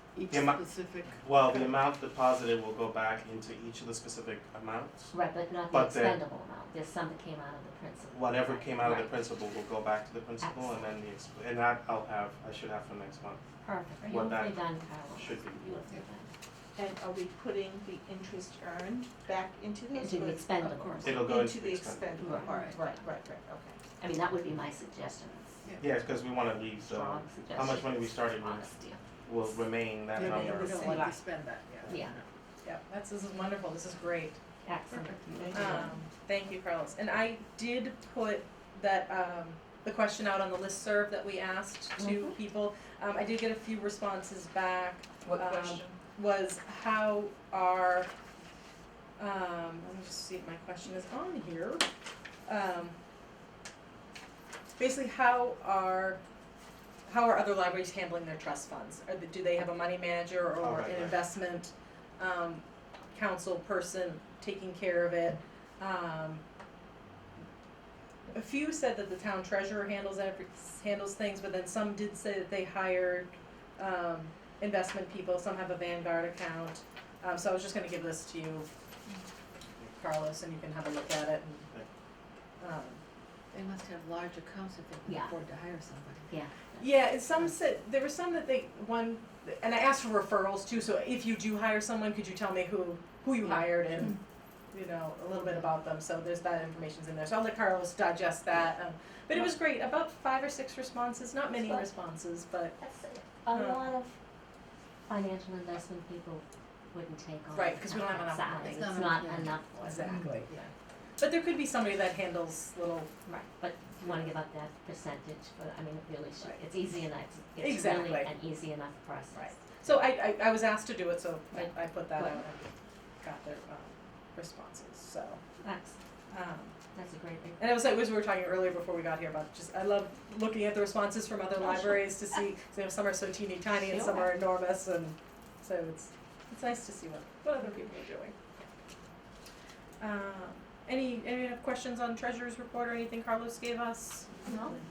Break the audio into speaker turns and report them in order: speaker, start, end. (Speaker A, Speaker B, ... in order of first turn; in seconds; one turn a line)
Speaker A: 0.1-1.7
Speaker B: 0.3-0.6
Speaker B: 1.1-5.1
Speaker C: 5.1-9.1
Speaker B: 5.7-6.2
Speaker B: 8.1-13.4
Speaker C: 10.4-10.8
Speaker C: 13.6-16.3
Speaker B: 14.0-14.6
Speaker B: 15.2-15.8
Speaker D: 16.8-20.4
Speaker C: 19.9-21.4
Speaker A: 20.6-21.1
Speaker B: 21.0-22.4
Speaker D: 21.2-23.8
Speaker C: 22.2-23.0
Speaker A: 22.2-22.9
Speaker C: 24.0-25.6
Speaker A: 25.6-25.9
Speaker B: 25.8-28.7
Speaker C: 26.8-29.0
Speaker B: 29.2-31.0
Speaker A: 30.1-32.2
Speaker C: 30.2-31.2
Speaker B: 31.8-32.1
Speaker C: 31.9-32.2
Speaker E: 32.6-34.4
Speaker C: 34.6-36.0
Speaker D: 35.1-35.9
Speaker E: 35.5-48.1
Speaker C: 42.0-42.4
Speaker D: 45.2-45.9
Speaker E: 49.2-51.8
Speaker E: 52.5-52.9
Speaker E: 54.8-56.2
Speaker E: 57.0-66.4
Speaker B: 60.6-61.2
Speaker E: 68.3-78.7
Speaker E: 80.0-81.7
Speaker E: 82.6-83.0
Speaker A: 83.5-86.3
Speaker C: 85.0-85.3
Speaker C: 86.3-87.5
Speaker E: 86.8-94.2
Speaker E: 94.7-102.8
Speaker C: 101.6-101.8
Speaker C: 102.8-104.1
Speaker E: 103.5-103.9
Speaker C: 105.1-110.2
Speaker E: 107.5-108.9
Speaker A: 108.6-110.7
Speaker E: 109.8-110.6
Speaker E: 111.2-113.1
Speaker C: 113.2-119.9
Speaker E: 114.0-114.3
Speaker E: 117.6-118.3
Speaker E: 119.3-122.6
Speaker C: 121.5-122.4
Speaker E: 123.2-125.4
Speaker C: 125.6-126.0
Speaker E: 126.3-126.7
Speaker C: 126.9-127.6
Speaker E: 127.6-138.3
Speaker C: 131.6-132.1
Speaker C: 133.9-134.3
Speaker E: 140.0-144.4
Speaker C: 144.4-144.8